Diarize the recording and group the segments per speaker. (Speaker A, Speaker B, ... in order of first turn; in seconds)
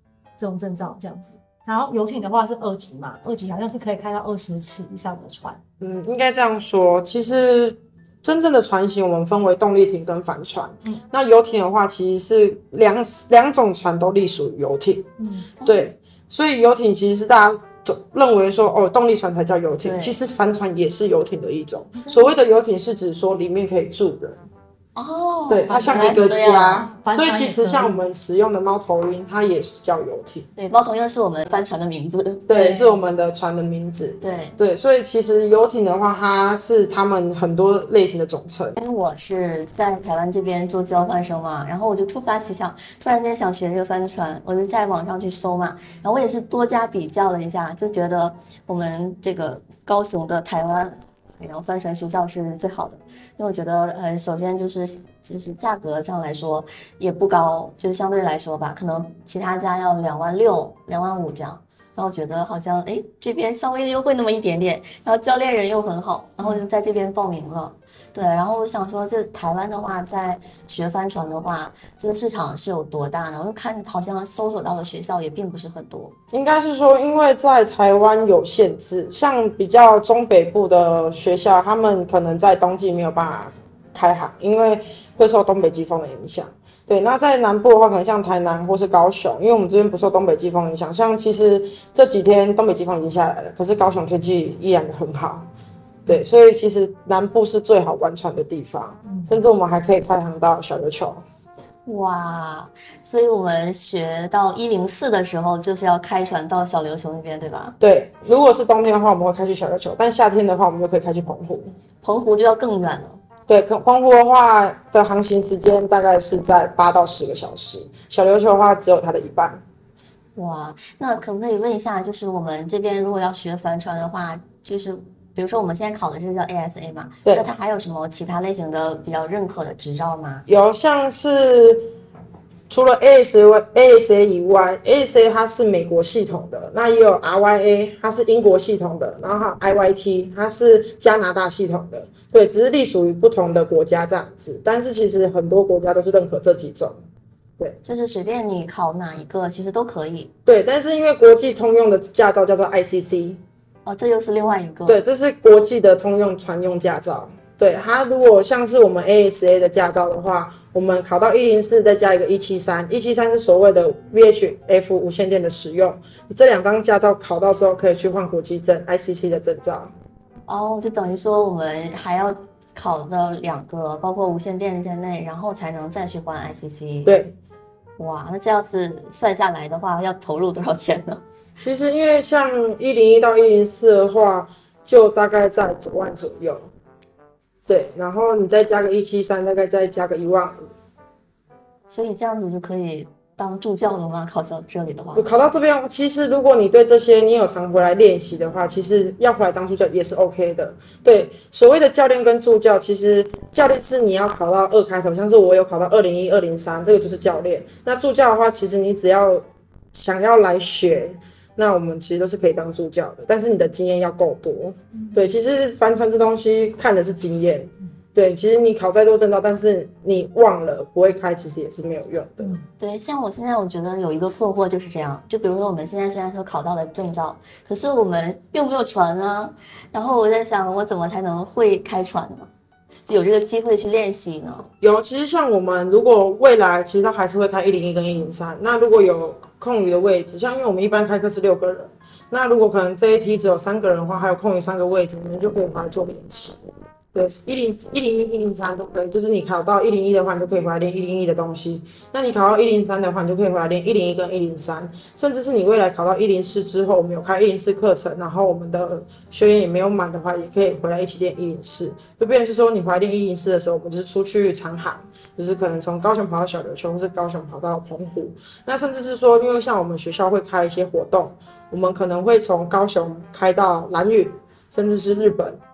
Speaker A: 0.4-5.6, 15.2-15.5, 26.8-28.0, 99.1-99.3
Speaker B: 5.8-15.1, 15.6-24.4, 25.5-30.5, 32.5-38.8, 76.3-95.5, 96.0-101.2, 107.8-111.7, 113.5-119.6, 127.2-127.5, 130.5-131.9, 132.7-147.0, 150.4-153.4, 154.8-169.9, 177.1-177.3, 181.6-186.7, 187.7-190.7, 195.1-222.6, 234.8-246.6, 247.1-275.6
Speaker C: 15.6-15.9, 19.8-20.2, 24.9-26.9, 30.6-33.0, 34.2-34.6, 38.8-76.1, 101.8-107.7, 112.0-113.2, 120.3-130.4, 147.8-150.3, 153.8-155.0, 170.5-177.1, 178.0-181.2, 191.9-195.3, 222.8-232.5, 233.1-234.7